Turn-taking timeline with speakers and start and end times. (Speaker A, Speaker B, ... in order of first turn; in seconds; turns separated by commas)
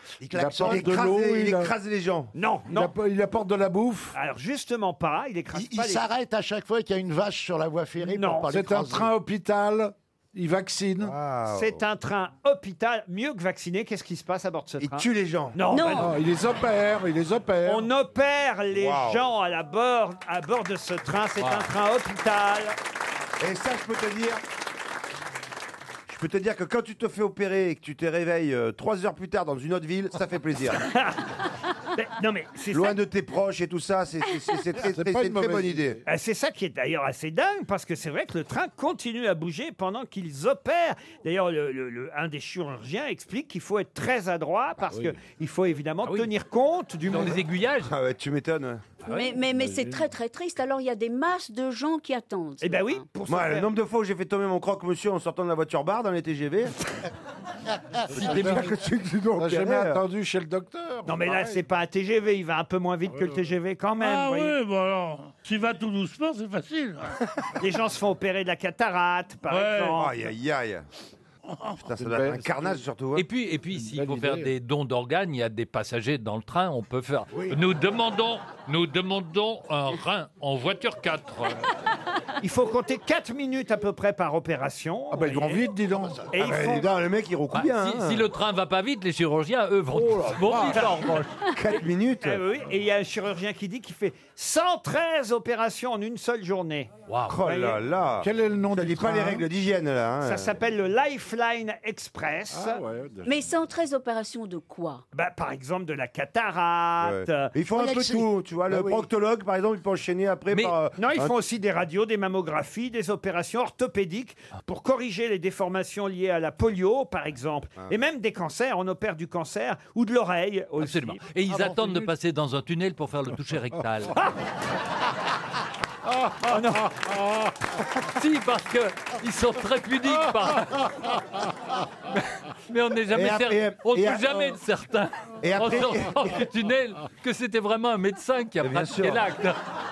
Speaker A: 0.3-1.7, Speaker B: 0.4-0.8, Speaker C: 0.5-2.3, Speaker D: 2.3-2.9, Speaker A: 2.7-4.2, Speaker D: 4.1-6.0, Speaker B: 5.5-9.1, Speaker D: 8.0-8.5, Speaker A: 8.5-11.2, Speaker C: 11.0-11.8, Speaker D: 11.5-16.1, Speaker C: 14.8-15.6, Speaker E: 15.7-16.1, Speaker A: 15.9-17.9, Speaker D: 17.6-22.8, Speaker C: 18.7-19.3, Speaker F: 21.4-21.7, Speaker C: 23.4-24.4, Speaker C: 26.1-30.8, Speaker D: 30.9-31.2, Speaker D: 31.9-32.9, Speaker C: 32.7-36.0, Speaker A: 34.8-36.0, Speaker D: 36.1-47.4, Speaker A: 44.9-45.2, Speaker F: 46.0-46.3, Speaker F: 47.1-47.9, Speaker C: 47.8-48.9, Speaker F: 49.0-49.7, Speaker E: 49.1-53.0, Speaker D: 52.6-53.7, Speaker C: 53.3-56.7, Speaker C: 58.1-60.0, Speaker A: 58.1-58.8, Speaker A: 59.3-61.6, Speaker D: 61.1-64.5, Speaker G: 64.0-67.1, Speaker D: 67.6-70.1, Speaker G: 69.5-70.0, Speaker C: 69.9-70.8, Speaker C: 71.8-73.2, Speaker A: 71.9-72.8, Speaker F: 73.2-81.6, Speaker A: 73.7-74.5, Speaker D: 82.4-85.6, Speaker A: 85.1-86.2, Speaker D: 86.3-86.9, Speaker C: 86.3-88.2, Speaker F: 87.5-91.3, Speaker A: 89.9-91.0, Speaker C: 91.5-92.4, Speaker D: 92.2-96.9, Speaker F: 97.1-97.3, Speaker C: 97.3-100.5, Speaker D: 97.4-97.8, Speaker A: 98.2-99.5, Speaker D: 100.2-102.8, Speaker A: 102.5-103.4, Speaker E: 103.2-105.0, Speaker D: 105.1-107.5, Speaker C: 107.0-111.3, Speaker A: 108.7-109.0, Speaker F: 110.5-110.8, Speaker D: 110.9-121.2, Speaker F: 120.8-124.2, Speaker A: 121.7-122.0, Speaker D: 126.5-126.9, Speaker F: 128.0-131.1, Speaker F: 132.7-139.6, Speaker C: 133.1-134.5, Speaker C: 135.4-136.4, Speaker C: 138.6-139.2